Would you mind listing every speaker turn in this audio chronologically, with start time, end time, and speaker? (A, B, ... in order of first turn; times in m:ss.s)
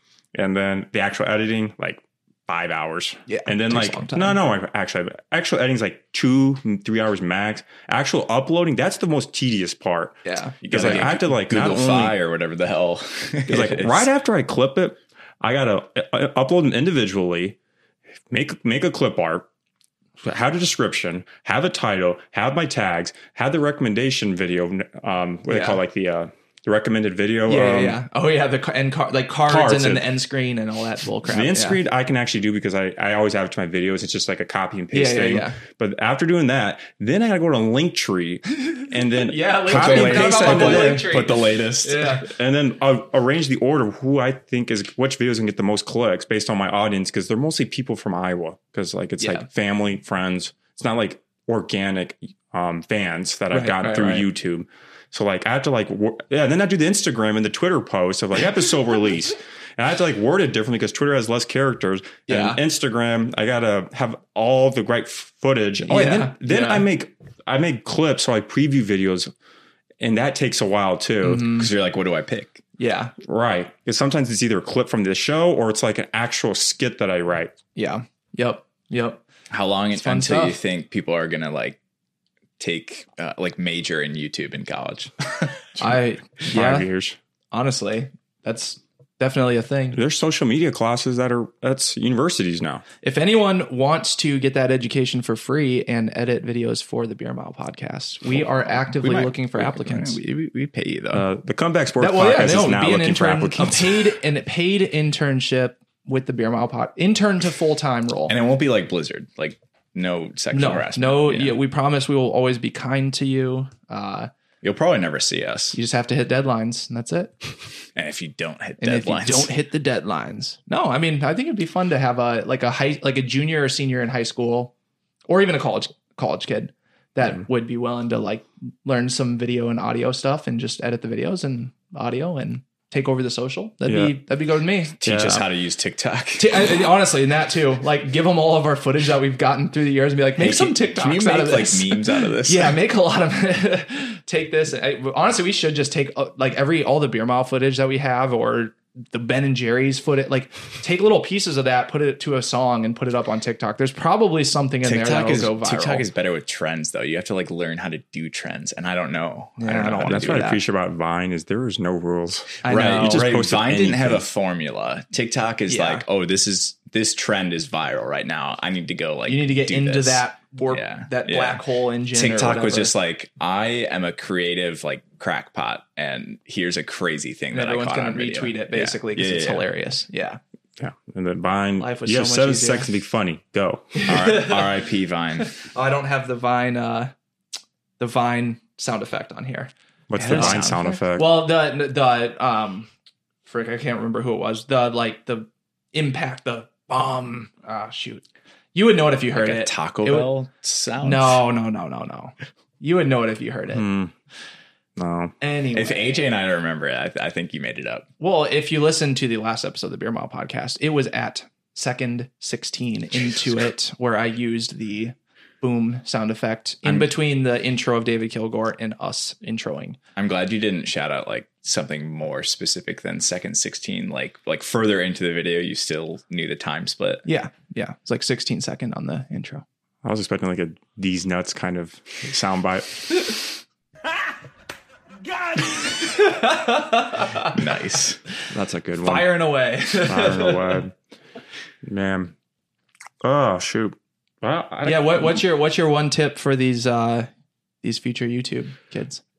0:00.3-0:12.2 A
0:03.3-0:04.4 B
0:10.2-0:11.0 B
0:10.6-0:14.1 C
0:13.5-0:17.6 A
0:18.3-0:19.4 A
0:20.2-0:28.0 A
0:25.5-0:25.8 B
0:27.4-0:31.8 B
0:29.4-0:30.1 A
0:31.2-0:41.1 A
0:34.9-0:35.6 B
0:39.1-0:42.3 B
0:39.6-0:42.2 C
0:42.2-1:09.3 A
0:49.2-0:49.5 B
0:53.5-0:54.3 B
1:02.3-1:02.6 B
1:05.9-1:06.9 B
1:10.0-1:11.5 A
1:11.2-1:11.7 B
1:11.4-1:12.6 C
1:12.8-1:13.1 B
1:13.2-1:17.5 A
1:17.8-1:19.2 B
1:19.5-1:21.8 C
1:19.9-1:20.6 B
1:22.6-1:25.6 C
1:25.8-1:26.9 B
1:26.4-1:27.2 A
1:27.5-1:30.0 B
1:29.9-1:32.8 A
1:33.0-1:40.2 B
1:38.4-1:41.3 C
1:41.1-1:44.1 A
1:42.0-1:48.3 B
1:48.3-1:51.6 C
1:50.5-1:54.3 B
1:54.6-1:55.8 C
1:55.7-1:57.3 B
1:57.9-1:59.5 C
1:58.8-2:04.7 B
2:05.3-2:15.0 B
2:13.8-2:14.2 A
2:15.0-2:16.8 C
2:15.0-2:15.4 A
2:16.4-2:36.1 B
2:20.4-2:22.8 C
2:34.8-2:40.6 C
2:39.6-2:40.6 B
2:40.1-2:44.2 A
2:42.6-2:43.3 B
2:42.7-2:59.7 C
2:45.7-2:46.0 B
2:49.2-2:52.9 B
2:57.5-3:00.4 B
3:00.8-3:03.9 A
3:01.8-3:02.9 B
3:03.9-3:04.8 B
3:04.0-3:05.6 C
3:05.4-3:07.1 B
3:08.0-3:12.9 B
3:10.1-3:11.4 A
3:10.2-3:10.9 C
3:13.4-3:20.3 B
3:19.3-3:21.4 C
3:21.0-3:23.8 B
3:23.7-3:24.1 A
3:25.0-3:25.3 A
3:25.4-3:26.2 B
3:25.7-3:28.0 C
3:28.2-3:40.0 B
3:36.8-3:37.1 C
3:40.2-3:47.2 C
3:47.2-3:49.6 B
3:50.0-3:53.3 A
3:55.3-3:57.6 B
3:57.4-3:58.2 C
3:58.5-3:59.4 A
3:59.0-4:00.8 B
4:00.1-4:00.9 A
4:01.8-4:02.3 A
4:03.2-4:05.4 A
4:04.8-4:07.3 B
4:07.8-4:09.2 B